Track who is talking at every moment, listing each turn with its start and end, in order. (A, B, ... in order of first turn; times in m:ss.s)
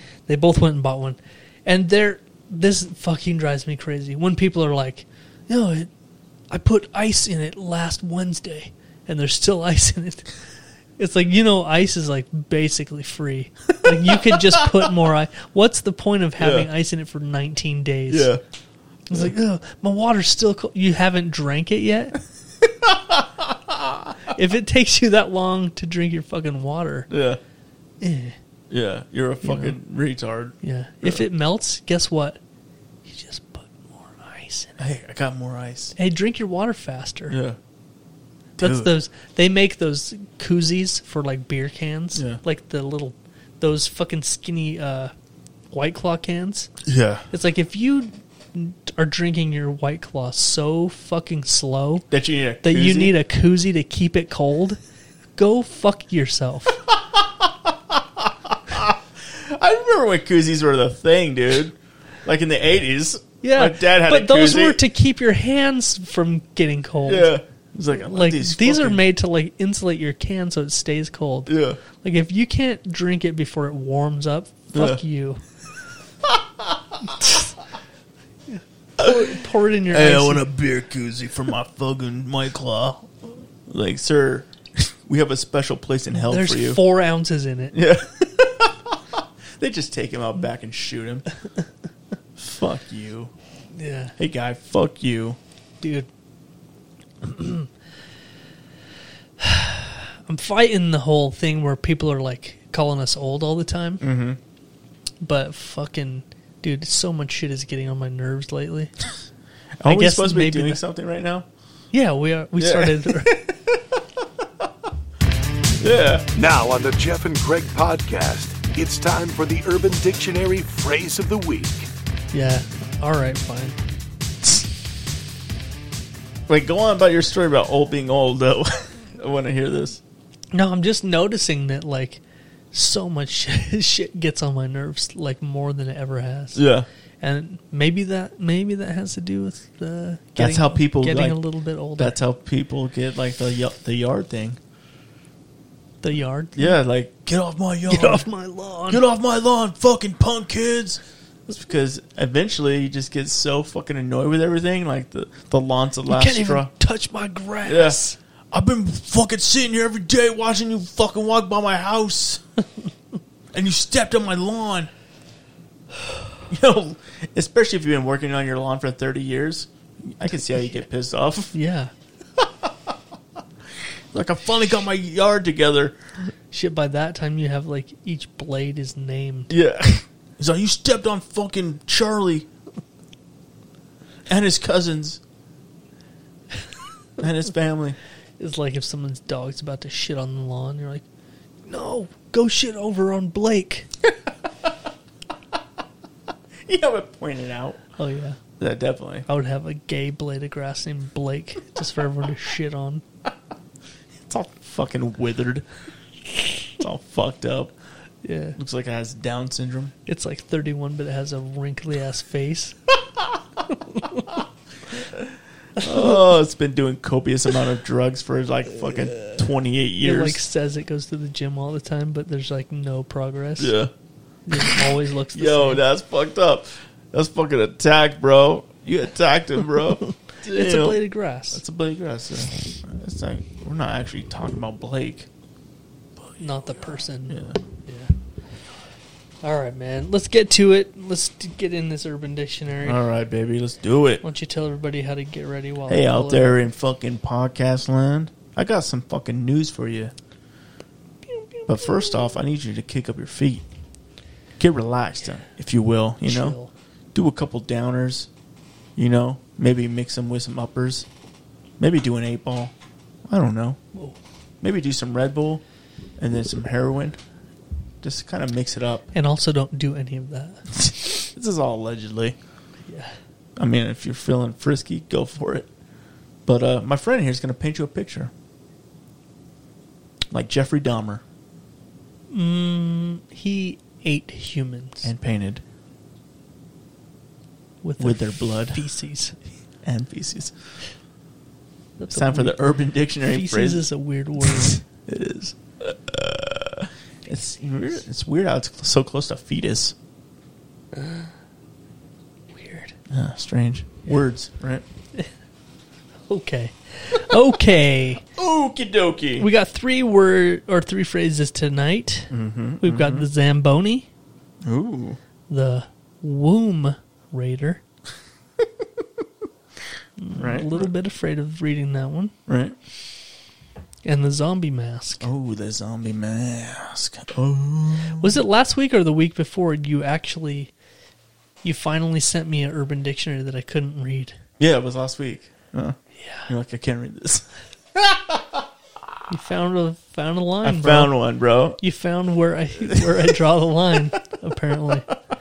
0:00.3-0:05.9 A
0:06.5-0:10.3 A
0:11.0-0:18.3 A
0:13.8-0:14.9 B
0:16.4-0:16.7 B
0:18.1-0:18.4 B
0:19.1-0:22.2 A
0:22.8-0:24.1 B
0:24.3-0:27.1 A
0:27.1-0:27.4 B
0:28.0-0:28.4 A
0:28.7-0:31.2 B
0:29.4-0:29.8 A
0:30.6-0:32.4 A
0:33.0-0:34.8 A
0:34.8-0:35.9 B
0:36.0-0:37.4 A
0:37.3-0:37.6 B
0:38.6-0:45.1 A
0:38.6-0:38.9 B
0:42.2-0:42.4 B
0:45.7-0:46.7 A
0:46.8-0:47.2 B
0:47.3-0:52.1 A
0:52.1-0:53.2 B
0:52.6-0:54.8 A
0:55.4-0:56.8 A
0:57.2-1:04.8 B
1:03.4-1:07.3 A
1:07.0-1:09.0 B
1:08.0-1:15.4 A
1:11.5-1:11.8 B
1:14.7-1:15.0 B
1:18.5-1:20.4 A
1:19.0-1:19.3 B
1:19.9-1:23.1 B
1:23.6-1:26.8 B
1:26.1-1:27.8 A
1:27.7-1:31.2 B
1:32.4-1:33.3 B
1:33.7-1:34.2 A
1:34.2-1:35.4 B
1:35.8-1:36.1 A
1:37.2-1:37.7 A
1:39.4-1:44.0 A
1:44.0-1:44.4 B
1:45.2-1:48.9 A
1:49.8-1:51.5 B
1:49.9-1:50.8 A
1:51.9-1:53.4 A
1:52.6-1:53.8 B
1:55.8-1:56.3 B
1:56.4-2:01.9 C
2:02.3-2:03.8 A
2:06.5-2:10.0 B
2:10.5-2:16.6 A
2:16.6-2:16.9 B
2:17.2-2:22.2 A
2:20.4-2:21.4 B
2:22.0-2:24.6 B
2:26.0-2:26.8 A
2:26.6-2:28.3 B
2:27.9-2:29.0 A
2:28.9-2:36.7 B
2:36.1-2:38.2 A
2:37.6-2:38.0 B
2:38.5-2:42.4 B
2:43.5-2:44.9 B
2:46.5-2:51.6 B
2:51.5-2:51.9 A
2:52.4-2:52.9 B
2:54.1-2:56.0 B
2:56.5-2:59.5 A
2:59.5-3:02.5 B
3:04.3-3:05.2 B
3:07.2-3:08.0 B
3:08.4-3:11.0 A
3:11.6-3:13.9 A
3:16.6-3:17.8 B
3:18.0-3:18.4 A
3:18.6-3:19.3 B
3:19.3-3:23.0 A
3:24.3-3:25.6 B
3:26.8-3:27.7 B
3:28.2-3:28.6 A
3:28.6-3:29.9 B
3:30.1-3:32.8 A
3:33.9-3:34.3 A
3:35.1-3:40.4 B
3:35.8-3:36.2 A
3:40.0-3:43.7 A
3:43.6-3:43.9 B
3:44.5-3:45.8 A
3:45.3-3:55.3 B
3:50.4-3:51.6 A
3:56.4-3:58.1 A
3:56.8-3:57.6 B
3:59.4-4:03.0 A
4:02.8-4:04.2 B
4:04.2-4:06.6 A
4:05.9-4:10.1 B
4:11.4-4:12.2 A
4:11.7-4:13.6 B
4:14.6-4:16.6 B
4:16.2-4:16.7 A
4:17.1-4:18.3 B
4:19.0-4:21.1 B
4:21.8-4:22.7 B
4:23.3-4:23.8 B
4:24.6-4:25.6 B
4:26.2-4:27.2 B
4:28.0-4:29.0 B
4:29.1-4:30.7 A
4:30.8-4:32.4 B
4:32.9-4:33.2 A
4:33.6-4:35.7 B
4:36.4-4:38.3 B
4:40.3-4:41.2 B
4:42.3-4:45.1 A
4:45.0-4:45.6 B
4:47.8-4:49.4 A
4:48.0-4:48.8 B
4:49.8-4:50.6 B
4:52.0-4:52.6 A
4:52.1-4:53.8 B
4:53.2-4:54.8 A
4:54.4-4:59.9 B
5:00.9-5:01.3 A
5:02.5-5:03.0 A
5:03.1-5:04.8 B
5:06.3-5:08.2 A
5:08.4-5:09.5 B
5:09.4-5:12.3 A
5:12.3-5:13.3 B
5:12.8-5:14.1 A
5:14.6-5:15.2 B
5:15.5-5:17.8 A
5:20.2-5:22.3 A
5:20.4-5:20.9 B
5:22.5-5:22.8 B
5:24.0-5:25.3 A
5:25.2-5:28.4 B
5:28.2-5:30.7 A
5:31.6-5:34.4 A
5:34.6-5:38.6 B
5:36.1-5:36.5 A
5:39.3-5:41.1 A
5:40.6-5:41.8 B
5:41.8-5:45.1 A
5:42.9-5:43.3 B